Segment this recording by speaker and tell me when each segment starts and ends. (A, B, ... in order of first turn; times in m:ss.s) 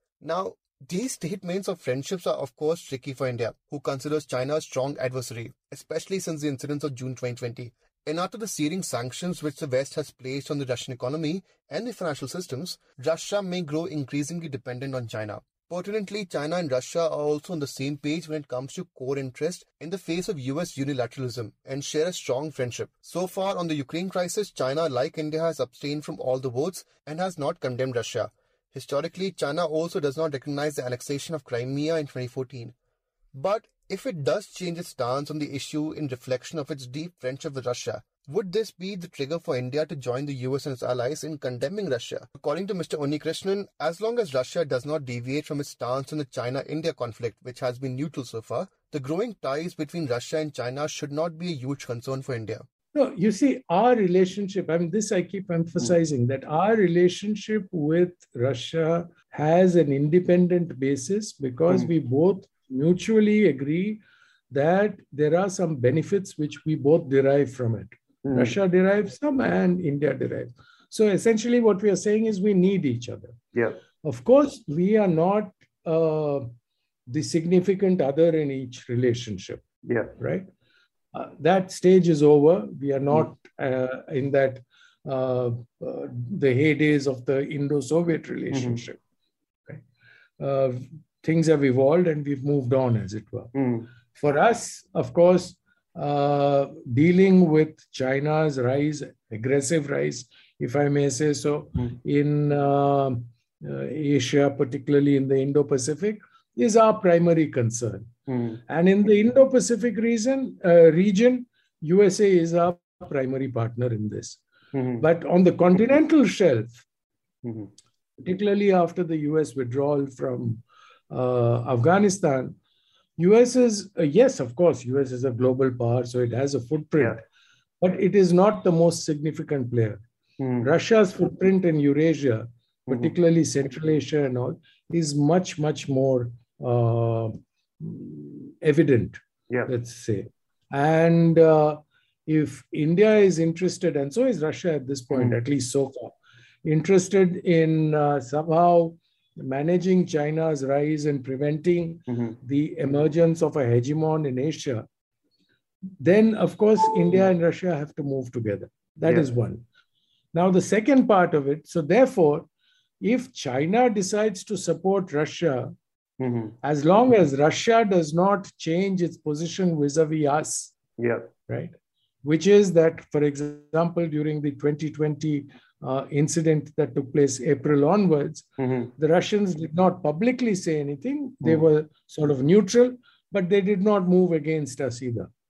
0:00.2-0:32.7 A
0:33.3-0:52.6 A
0:52.9-1:13.4 B
1:08.2-1:08.6 C
1:13.5-1:13.8 C
1:14.0-1:16.5 B
1:17.1-1:20.5 B
1:19.8-1:20.1 C
1:21.1-1:29.0 B
1:28.5-1:28.8 C
1:30.4-1:33.5 B
1:33.6-1:33.9 C
1:34.1-1:48.1 B
1:48.3-1:48.6 C
1:48.7-1:54.4 B
1:54.7-1:55.0 C
1:55.0-1:56.8 B
1:57.4-1:57.7 C
1:58.2-2:02.6 B
2:03.2-2:07.2 B
2:07.8-2:10.0 B
2:10.4-2:10.7 C
2:10.6-2:26.1 B
2:26.6-2:34.9 B
2:36.0-2:39.6 B
2:40.3-2:42.5 B
2:43.0-2:45.7 B
2:46.2-2:46.6 C
2:46.6-2:50.8 B
2:51.0-2:51.3 C
2:51.5-3:05.3 B
2:58.6-2:58.9 C